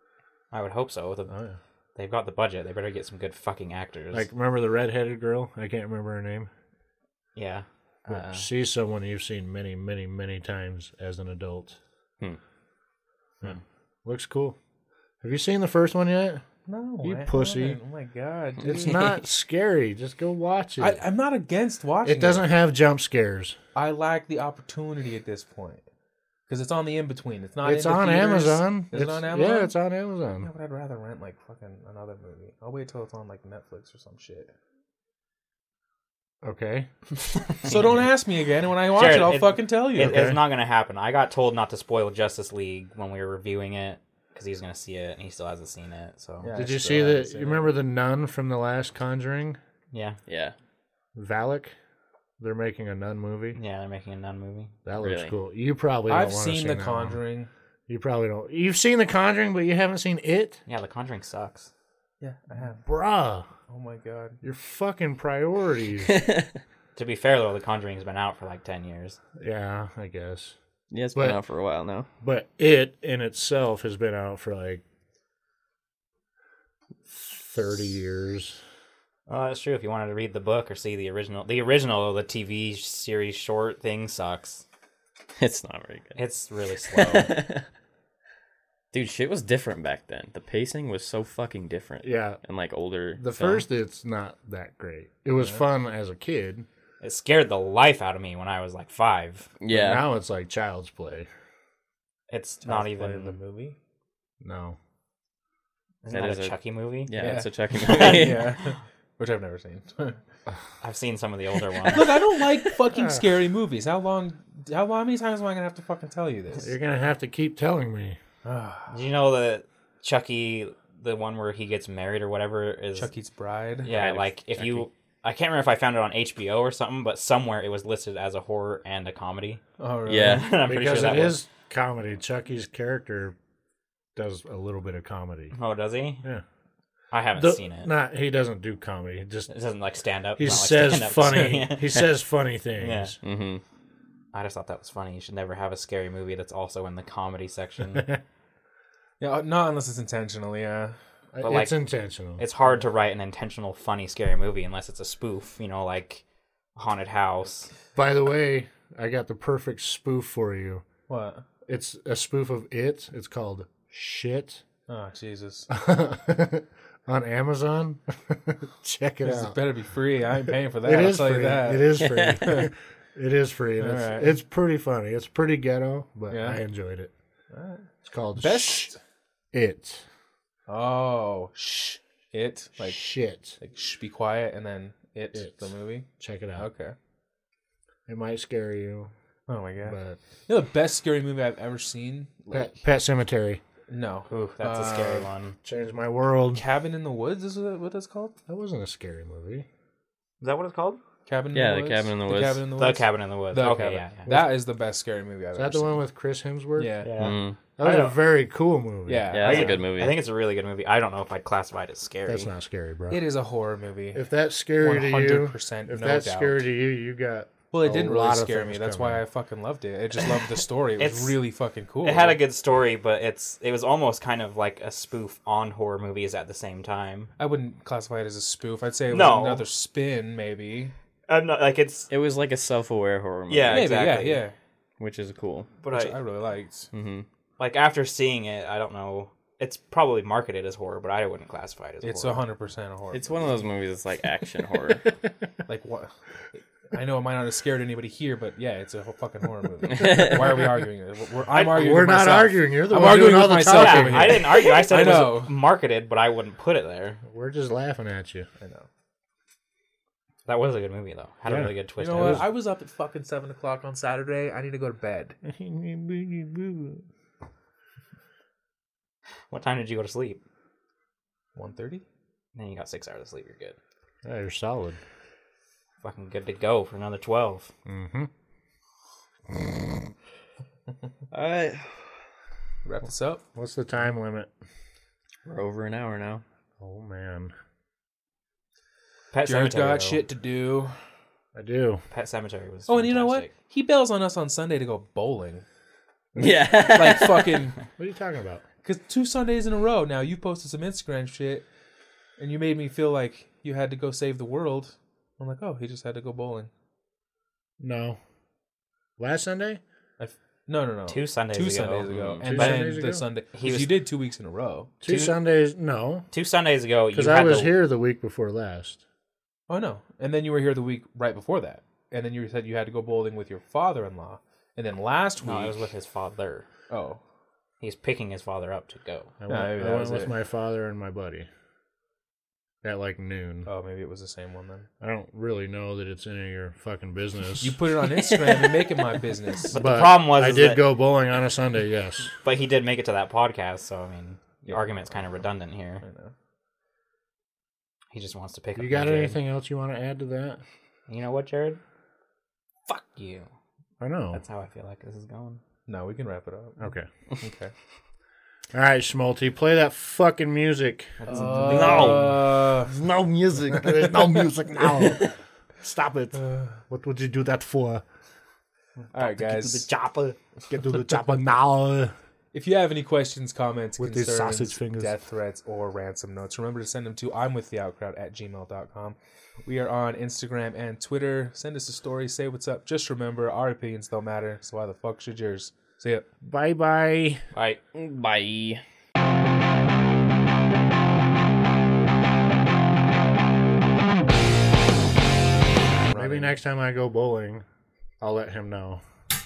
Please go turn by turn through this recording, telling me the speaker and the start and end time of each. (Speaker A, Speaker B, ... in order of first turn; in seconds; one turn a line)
Speaker A: 0.5-1.3
Speaker B: 1.3-1.6
Speaker A: 2.0-4.3
Speaker B: 4.1-6.5
Speaker A: 7.4-8.5
Speaker B: 8.1-11.8
Speaker B: 13.4-14.6
Speaker B: 15.2-16.4
Speaker C: 16.7-19.2
Speaker B: 17.0-17.8
Speaker B: 18.6-21.0
Speaker C: 20.8-22.5
Speaker B: 22.0-23.6
Speaker C: 23.8-25.8
Speaker C: 26.5-29.7
Speaker B: 27.6-30.5
Speaker C: 30.4-34.5
Speaker B: 36.4-36.9
Speaker A: 37.2-38.1
Speaker C: 37.6-40.3
Speaker A: 38.9-46.5
Speaker B: 40.0-40.4
Speaker C: 46.4-47.7
Speaker B: 46.5-49.6
Speaker A: 49.9-50.2
Speaker D: 50.3-50.5
Speaker B: 51.2-51.8
Speaker B: 52.4-53.6
Speaker A: 53.5-54.7
Speaker B: 54.9-57.2
Speaker D: 55.0-55.3
Speaker C: 56.1-57.5
Speaker B: 57.9-60.6
Speaker A: 60.7-61.7
Speaker C: 62.2-62.9
Speaker B: 62.8-63.5
Speaker C: 63.7-64.4
Speaker B: 64.4-66.2
Speaker D: 66.1-66.6
Speaker A: 67.0-69.2
Speaker B: 69.4-70.5
Speaker D: 70.9-72.1
Speaker B: 72.2-74.8
Speaker B: 77.1-78.6
Speaker A: 79.3-84.6
Speaker D: 85.4-86.2
Speaker A: 86.2-87.3
Speaker D: 86.9-87.7
Speaker D: 88.9-93.7
Speaker B: 92.0-92.4
Speaker B: 93.2-96.7
Speaker A: 97.0-99.5
Speaker D: 99.6-100.0
Speaker B: 99.7-101.3
Speaker A: 102.3-103.4
Speaker C: 102.6-103.8
Speaker B: 104.4-104.8
Speaker A: 106.0-108.7
Speaker D: 106.1-106.5
Speaker D: 107.1-108.5
Speaker C: 107.2-110.2
Speaker A: 110.8-112.3
Speaker C: 111.9-116.7
Speaker B: 116.6-118.2
Speaker C: 118.5-119.0
Speaker A: 118.9-123.1
Speaker C: 123.0-123.9
Speaker A: 123.8-129.6
Speaker D: 123.9-124.9
Speaker C: 129.8-130.4
Speaker D: 130.1-130.5
Speaker A: 130.2-131.4
Speaker B: 130.6-133.4
Speaker B: 134.2-135.5
Speaker A: 135.5-136.2
Speaker A: 137.1-137.9
Speaker B: 137.3-139.5
Speaker A: 139.5-142.0
Speaker B: 140.4-143.2
Speaker A: 142.8-143.2
Speaker D: 143.2-143.6
Speaker A: 144.3-148.2
Speaker C: 149.2-151.0
Speaker B: 151.3-152.4
Speaker A: 151.4-151.8
Speaker A: 152.4-156.2
Speaker A: 156.8-157.7
Speaker B: 157.9-160.8
Speaker C: 161.1-161.4
Speaker B: 161.7-164.6
Speaker C: 164.9-165.7
Speaker B: 165.7-169.6
Speaker C: 169.2-172.7
Speaker B: 170.8-177.1
Speaker D: 172.1-172.4
Speaker C: 173.8-174.3
Speaker C: 176.3-176.6
Speaker C: 177.5-179.0
Speaker B: 178.1-178.9
Speaker B: 179.5-180.0
Speaker C: 180.7-183.0
Speaker B: 182.8-183.6
Speaker C: 183.6-186.9
Speaker B: 185.3-185.7
Speaker B: 186.2-186.7
Speaker B: 188.1-189.1
Speaker C: 189.5-192.7
Speaker B: 189.8-190.2
Speaker B: 192.5-193.6
Speaker C: 193.9-195.3
Speaker A: 194.3-195.6
Speaker B: 195.6-196.6
Speaker C: 196.5-198.3
Speaker B: 198.5-199.7
Speaker A: 200.4-201.0
Speaker C: 201.3-206.0
Speaker D: 201.5-202.7
Speaker A: 202.8-204.3
Speaker B: 205.6-207.0
Speaker C: 206.8-207.1
Speaker A: 207.0-207.4
Speaker D: 207.2-207.6
Speaker B: 207.8-209.3
Speaker C: 207.8-208.1
Speaker C: 209.1-209.9
Speaker D: 209.3-210.2
Speaker A: 209.4-212.5
Speaker B: 212.3-213.2
Speaker C: 213.1-214.2
Speaker B: 214.1-219.2
Speaker C: 214.8-216.7
Speaker C: 217.7-222.4
Speaker A: 221.0-221.4
Speaker A: 222.0-227.3
Speaker C: 227.4-230.9
Speaker A: 229.1-229.7
Speaker A: 231.3-232.1
Speaker D: 232.1-234.2
Speaker A: 233.5-234.4
Speaker C: 233.7-234.6
Speaker D: 235.0-235.7
Speaker A: 235.8-236.2
Speaker C: 235.9-236.9
Speaker D: 236.9-237.3
Speaker A: 237.6-242.4
Speaker C: 242.0-243.3
Speaker D: 243.1-245.1
Speaker C: 245.7-255.6
Speaker A: 251.5-251.9
Speaker B: 251.7-254.5
Speaker A: 253.7-257.2
Speaker B: 257.2-258.5
Speaker C: 258.6-258.9
Speaker A: 260.5-262.5
Speaker B: 261.5-262.5
Speaker C: 262.0-265.4
Speaker B: 265.4-267.0
Speaker A: 269.5-270.4
Speaker C: 271.6-272.1
Speaker A: 272.6-273.8
Speaker B: 274.2-275.0
Speaker A: 276.0-277.7
Speaker B: 277.9-278.3
Speaker B: 279.5-279.8
Speaker D: 281.3-282.1
Speaker C: 282.8-283.4
Speaker B: 283.6-284.5
Speaker D: 285.4-286.4
Speaker B: 286.8-287.5
Speaker A: 289.3-290.2
Speaker C: 289.4-291.0
Speaker B: 291.5-292.0
Speaker A: 292.1-293.5
Speaker C: 292.9-295.6
Speaker B: 296.4-296.7
Speaker D: 296.4-297.6
Speaker C: 296.8-297.8
Speaker B: 298.0-298.6
Speaker C: 298.8-301.7
Speaker C: 302.4-306.7
Speaker B: 307.8-308.2
Speaker B: 309.2-309.8
Speaker C: 310.2-314.9
Speaker A: 311.1-312.2
Speaker D: 312.1-312.6
Speaker B: 312.5-313.2
Speaker A: 313.5-313.9
Speaker B: 315.0-316.3
Speaker A: 315.1-315.4
Speaker A: 316.3-317.7
Speaker B: 317.1-319.0
Speaker C: 319.7-325.8
Speaker A: 325.4-326.7
Speaker C: 326.9-327.2
Speaker A: 327.8-329.3
Speaker B: 329.4-331.5
Speaker C: 329.5-330.3
Speaker B: 332.8-333.7
Speaker C: 333.7-334.9
Speaker B: 335.0-337.8
Speaker C: 337.6-339.8
Speaker A: 339.7-340.8
Speaker B: 339.7-342.3
Speaker A: 342.4-346.0
Speaker C: 344.6-345.1
Speaker C: 346.0-346.3
Speaker A: 348.1-349.4
Speaker B: 348.8-350.6
Speaker A: 351.1-351.8
Speaker A: 352.9-353.5
Speaker B: 354.0-354.4
Speaker A: 354.3-355.6
Speaker C: 355.9-356.8
Speaker B: 356.8-357.1
Speaker C: 357.4-357.7
Speaker B: 358.7-368.0
Speaker A: 361.2-362.6
Speaker C: 361.3-362.9
Speaker C: 366.4-366.8
Speaker C: 369.1-369.9
Speaker A: 369.2-370.4
Speaker B: 370.7-372.1
Speaker C: 372.5-386.3
Speaker B: 374.0-375.1
Speaker B: 386.4-387.4
Speaker A: 387.6-387.8
Speaker D: 387.9-388.8
Speaker C: 396.1-396.6
Speaker B: 396.1-397.6
Speaker B: 398.2-399.0